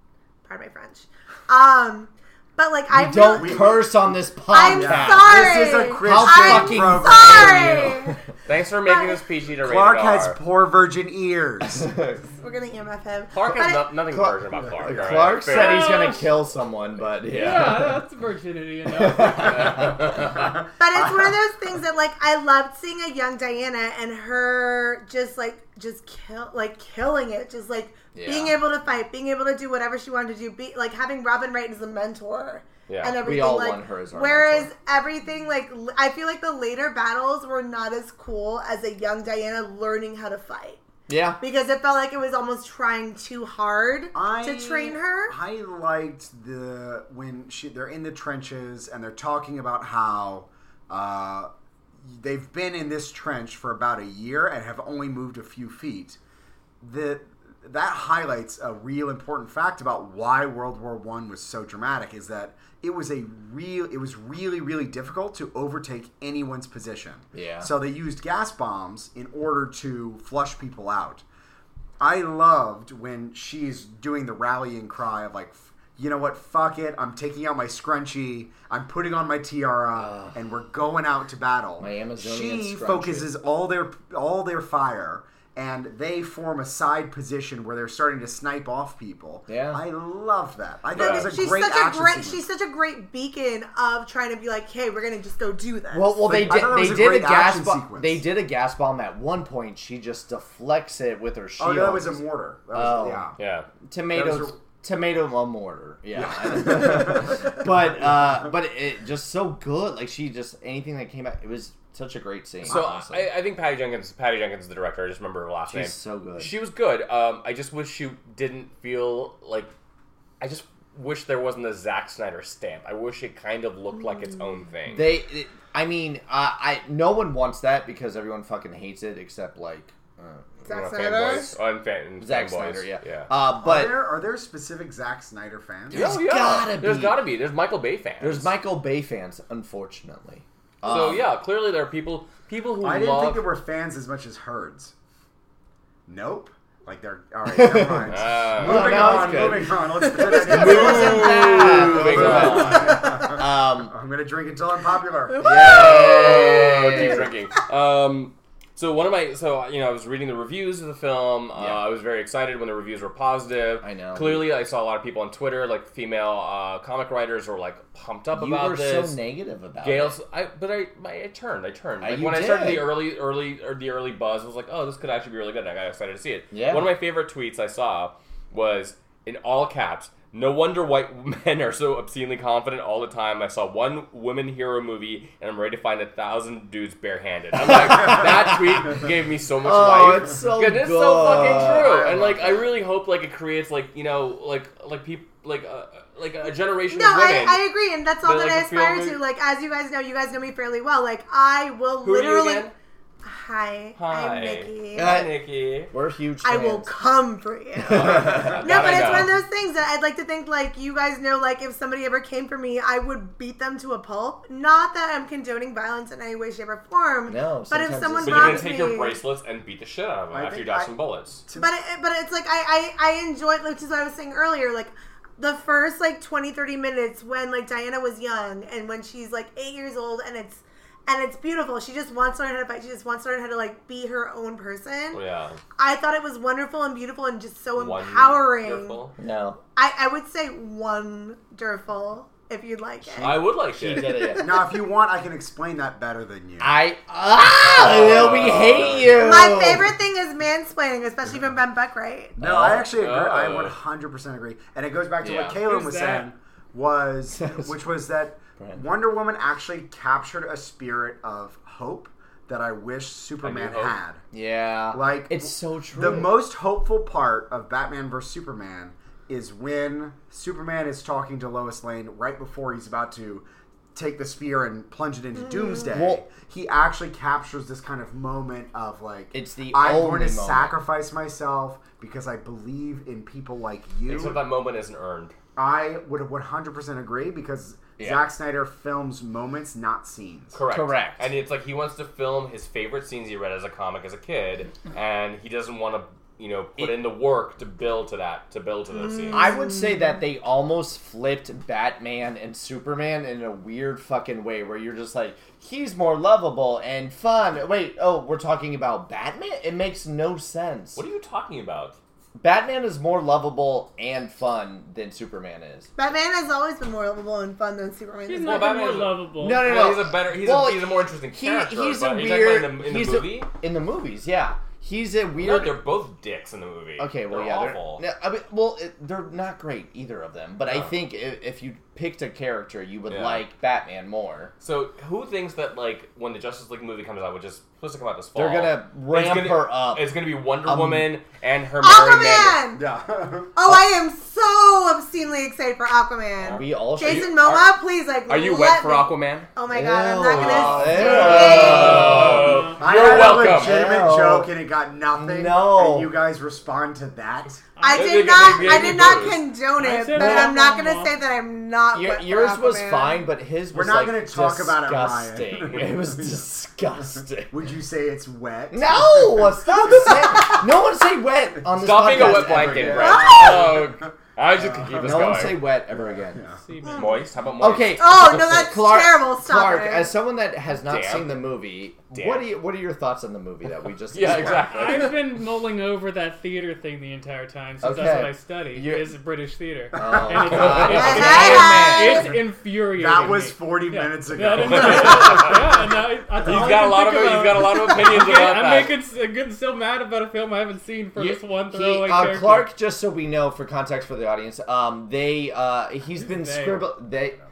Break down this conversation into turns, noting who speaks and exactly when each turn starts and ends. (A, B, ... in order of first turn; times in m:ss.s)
0:00.4-0:03.9 A
0:02.9-0:08.2 B
0:03.4-0:07.9 C
0:04.5-0:08.2 A
0:08.4-0:10.4 D
0:08.8-0:09.2 A
0:09.6-0:12.0 C
0:11.7-0:12.2 B
0:12.3-0:13.9 A
0:13.3-0:16.1 D
0:14.1-0:18.0 B
0:14.8-0:15.4 C
0:15.4-0:16.4 E
0:17.3-0:20.1 E
0:17.3-0:17.7 D
0:18.9-0:20.1 B
0:19.2-0:20.5 D
0:20.2-0:21.3 C
0:20.8-0:40.8 A
0:28.2-0:28.6 B
0:32.9-0:33.2 D
0:33.2-0:34.7 B
0:41.1-0:41.4 B
0:41.4-0:45.3 A
0:44.1-0:51.5 C
0:52.1-0:56.2 C
0:56.8-1:11.2 C
1:07.3-1:07.7 B
1:12.0-1:32.4 C
1:20.0-1:20.4 B
1:21.8-1:23.3 B
1:29.5-1:29.8 B
1:30.9-1:31.3 D
1:31.0-1:36.6 A
1:35.9-1:42.2 B
1:36.2-1:38.2 C
1:41.6-1:43.4 C
1:42.7-1:43.3 B
1:43.4-1:43.7 D
1:43.8-1:53.3 B
1:44.1-1:44.6 C
1:46.1-1:47.7 C
1:52.7-1:59.7 D
1:52.7-1:53.0 C
1:55.7-1:56.5 B
2:00.4-2:05.1 D
2:04.9-2:10.6 B
2:10.7-2:11.6 A
2:10.7-2:13.3 D
2:12.2-2:14.0 B
2:13.6-2:16.1 C
2:15.9-2:17.2 B
2:15.9-2:18.5 D
2:18.2-2:21.3 B
2:20.8-2:23.4 D
2:22.8-2:24.9 C
2:26.1-2:35.5 C
2:27.4-2:34.0 B
2:28.1-2:29.6 D
2:30.2-2:33.0 D
2:35.4-2:37.3 B
2:35.4-2:49.2 D
2:35.4-2:35.8 A
2:41.6-2:41.9 B
2:43.8-2:44.5 B
2:48.3-2:50.2 B
2:49.8-3:17.6 D
2:52.0-2:53.0 B
2:56.5-2:56.9 B
3:07.6-3:08.9 B
3:09.6-3:12.0 B
3:11.2-3:12.7 C
3:16.9-3:22.7 A
3:18.2-3:19.2 D
3:22.0-3:22.7 D
3:23.2-3:25.2 A
3:24.0-3:25.9 D
3:24.9-3:26.9 B
3:26.4-3:39.2 A
3:27.8-3:29.0 B
3:27.9-3:29.4 D
3:37.3-3:38.7 B
3:38.2-3:41.4 D
3:40.3-3:40.9 C
3:41.5-3:41.7 C
3:41.6-3:55.2 A
3:55.1-3:55.6 D
3:55.8-3:59.0 A
3:57.8-3:59.2 D
3:59.2-3:59.6 B
3:59.8-4:04.8 A
4:03.2-4:04.2 D
4:03.3-4:04.5 B
4:04.4-4:06.8 C
4:06.6-4:09.9 B
4:07.7-4:09.3 D
4:08.1-4:08.4 C
4:09.2-4:12.4 A
4:12.4-4:24.2 C
4:12.4-4:12.8 B
4:12.5-4:13.8 D
4:15.2-4:15.6 B
4:15.5-4:16.3 E
4:17.3-4:17.8 B
4:18.6-4:18.8 B
4:23.4-4:24.0 D
4:24.3-4:26.4 B
4:24.9-4:44.4 C
4:35.4-4:35.8 A
4:35.9-4:36.2 B
4:39.3-4:40.8 B
4:44.1-4:45.4 D
4:45.6-4:50.6 C
4:48.0-4:48.2 B
4:50.5-4:59.5 D
4:50.7-4:51.3 B
4:56.8-4:57.0 B
4:59.0-5:00.0 A
4:59.3-5:11.0 B
5:11.0-5:12.0 D
5:12.4-5:15.9 B
5:16.0-5:19.0 A
5:18.3-5:19.7 E
5:18.4-5:23.5 D
5:19.4-5:25.8 B
5:25.4-5:28.1 D
5:27.0-5:34.5 B
5:30.6-5:31.0 D
5:33.1-5:33.4 D
5:34.6-5:42.6 D
5:38.4-5:41.1 B
5:41.8-5:42.8 A
5:42.7-5:43.7 C
5:43.6-5:52.4 A
5:46.4-5:47.7 D
5:46.5-5:47.4 B
5:48.3-5:49.5 D
5:49.7-5:54.5 B
5:50.3-5:53.9 D
5:50.4-5:51.5 C
5:52.2-5:52.8 E
5:52.8-5:57.6 C
5:55.1-5:56.1 B
5:57.8-6:01.2 E
5:57.8-6:03.2 A
5:57.9-5:59.5 D
6:00.2-6:00.5 B
6:01.9-6:07.5 B
6:03.7-6:06.5 C
6:07.5-6:10.6 C
6:08.7-6:13.7 B
6:11.7-6:15.7 D
6:12.1-6:16.6 C
6:13.1-6:13.6 A
6:15.0-6:16.4 B
6:16.6-6:17.3 E
6:16.8-6:17.2 A
6:16.9-6:18.4 D
6:17.6-6:25.1 B
6:17.9-6:20.2 A
6:20.8-6:21.6 D
6:22.1-6:22.5 D
6:24.1-6:25.2 D
6:24.7-6:42.7 E
6:27.8-6:29.2 B
6:29.9-6:32.4 B
6:30.5-6:31.0 D
6:30.8-6:32.3 A
6:33.0-6:35.4 C
6:34.6-6:35.6 D
6:36.4-6:39.0 D
6:41.2-6:47.4 B
6:46.2-6:46.9 E